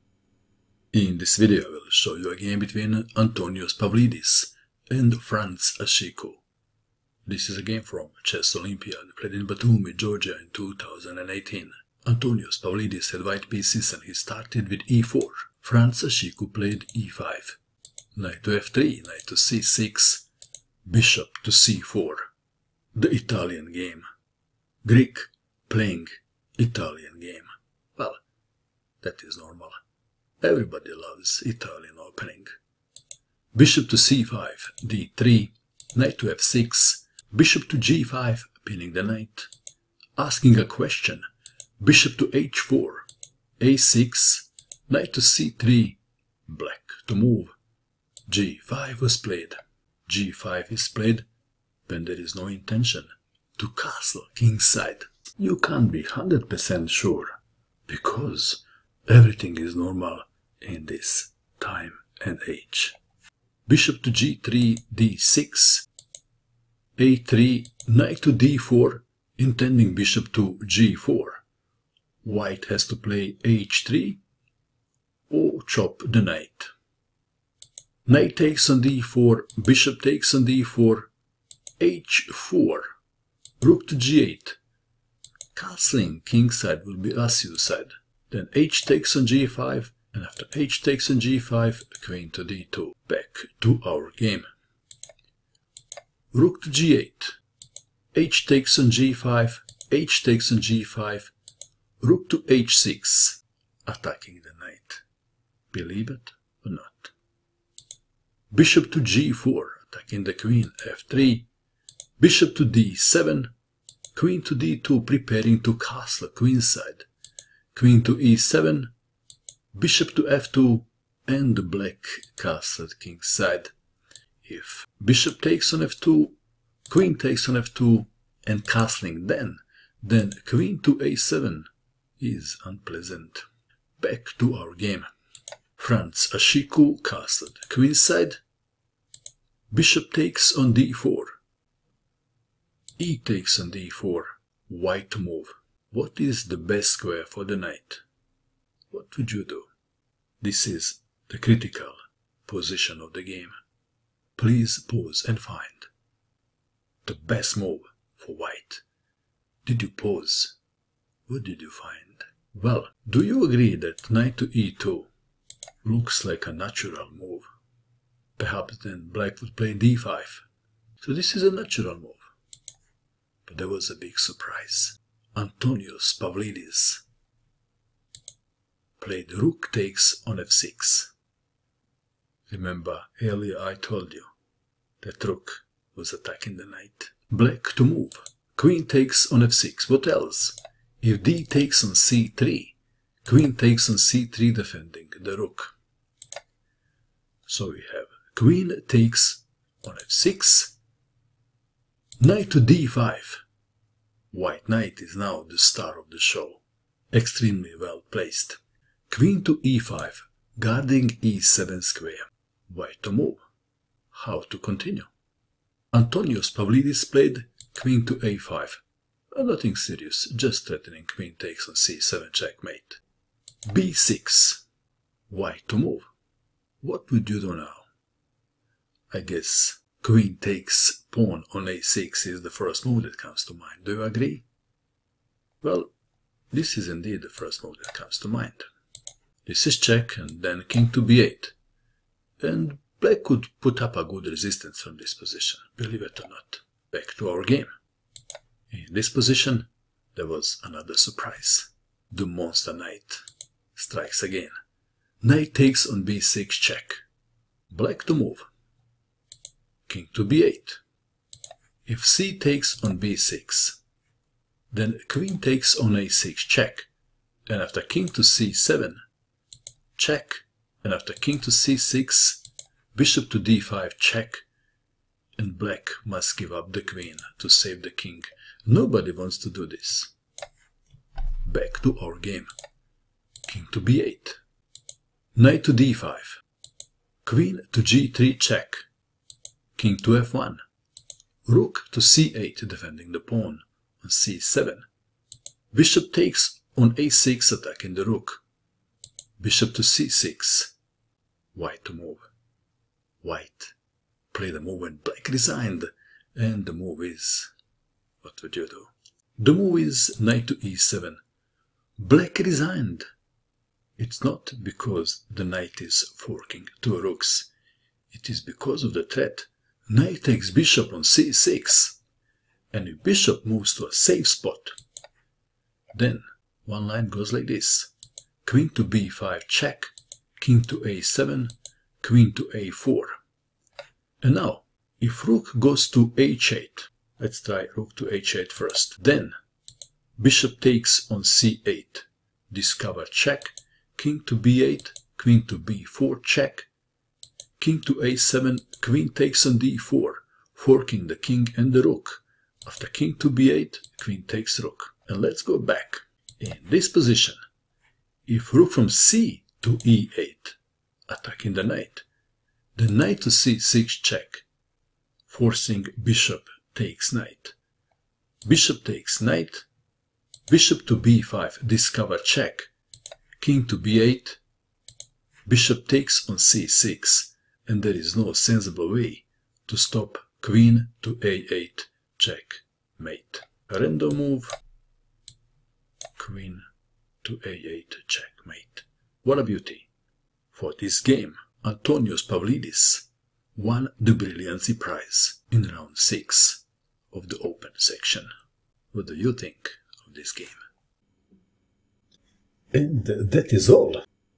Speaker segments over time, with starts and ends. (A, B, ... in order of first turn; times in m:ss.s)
0:00.9-0:06.4 A
0:07.3-0:17.6 A
0:18.2-0:20.3 A
0:20.8-0:22.3 A
0:23.0-0:24.0 A
0:24.8-0:28.2 A
0:29.0-0:29.7 A
0:30.4-0:32.6 A
0:33.5-0:39.5 A
0:40.2-0:41.2 A
0:41.8-0:43.1 A
0:43.6-0:47.5 A
0:48.3-0:49.6 A
0:50.1-0:51.2 A
0:51.9-1:03.0 A
1:03.7-1:05.9 A
1:07.0-1:11.4 A
1:12.2-1:14.2 A
1:15.3-1:16.7 A
1:18.0-1:21.1 A
1:21.8-1:22.9 A
1:23.6-1:24.6 A
1:25.6-1:34.4 A
1:36.3-1:37.4 A
1:38.1-1:41.3 A
1:42.0-1:45.0 A
1:45.7-1:47.1 A
1:48.5-1:51.5 A
1:52.2-1:53.5 A
1:54.1-1:57.1 A
1:57.7-1:58.9 A
1:59.8-2:03.7 A
2:04.4-2:06.4 A
2:06.9-2:11.7 A
2:12.2-2:13.4 A
2:14.0-2:15.1 A
2:15.8-2:18.4 A
2:19.7-2:21.4 A
2:23.0-2:28.0 A
2:28.9-2:29.7 A
2:30.4-2:33.5 A
2:34.4-2:35.9 A
2:37.0-2:38.8 A
2:39.6-2:40.6 A
2:41.3-2:45.1 A
2:45.8-2:47.4 A
2:48.4-2:50.4 A
2:51.0-2:52.2 A
2:53.5-2:57.0 A
2:59.0-3:01.1 A
3:02.5-3:04.3 A
3:05.0-3:15.8 A
3:17.5-3:20.8 A
3:22.2-3:23.4 A
3:24.3-3:33.4 A
3:34.1-3:35.1 A
3:35.9-3:38.8 A
3:39.3-3:43.0 A
3:43.7-3:44.6 A
3:45.3-3:46.0 A
3:46.8-3:47.9 A
3:49.1-3:54.4 A
3:55.6-3:55.9 A
3:56.5-3:58.6 A
3:59.5-4:01.6 A
4:02.4-4:07.7 A
4:08.7-4:13.2 A
4:13.8-4:14.5 A
4:15.2-4:17.0 A
4:17.7-4:18.4 A
4:19.9-4:20.8 A
4:21.8-4:23.8 A
4:24.7-4:26.9 A
4:27.5-4:29.0 A
4:30.0-4:34.4 A
4:35.4-4:40.1 A
4:41.4-4:42.5 A
4:43.4-4:44.4 A
4:45.3-4:46.4 A
4:47.2-4:48.8 A
4:49.8-4:50.6 A
4:51.4-4:54.8 A
4:55.7-4:58.4 A
4:59.4-5:00.7 A
5:01.5-5:02.3 A
5:03.2-5:03.7 A
5:04.3-5:07.5 A
5:08.2-5:11.2 A
5:12.0-5:13.0 A
5:14.0-5:17.5 A
5:18.1-5:22.0 A
5:22.7-5:24.8 A
5:25.9-5:27.9 A
5:28.4-5:33.2 A
5:34.2-5:39.3 A
5:40.2-5:46.7 A
5:47.6-5:57.4 A
5:58.3-6:00.6 A
6:01.1-6:02.0 A
6:02.8-6:04.4 A
6:05.3-6:07.5 A
6:08.4-6:09.6 A
6:10.5-6:12.7 A
6:13.4-6:14.4 A
6:15.4-6:24.6 A
6:26.2-6:26.6 A
6:27.2-6:29.9 A
6:30.5-6:38.3 A
6:38.9-6:40.6 A
6:42.7-6:44.0 A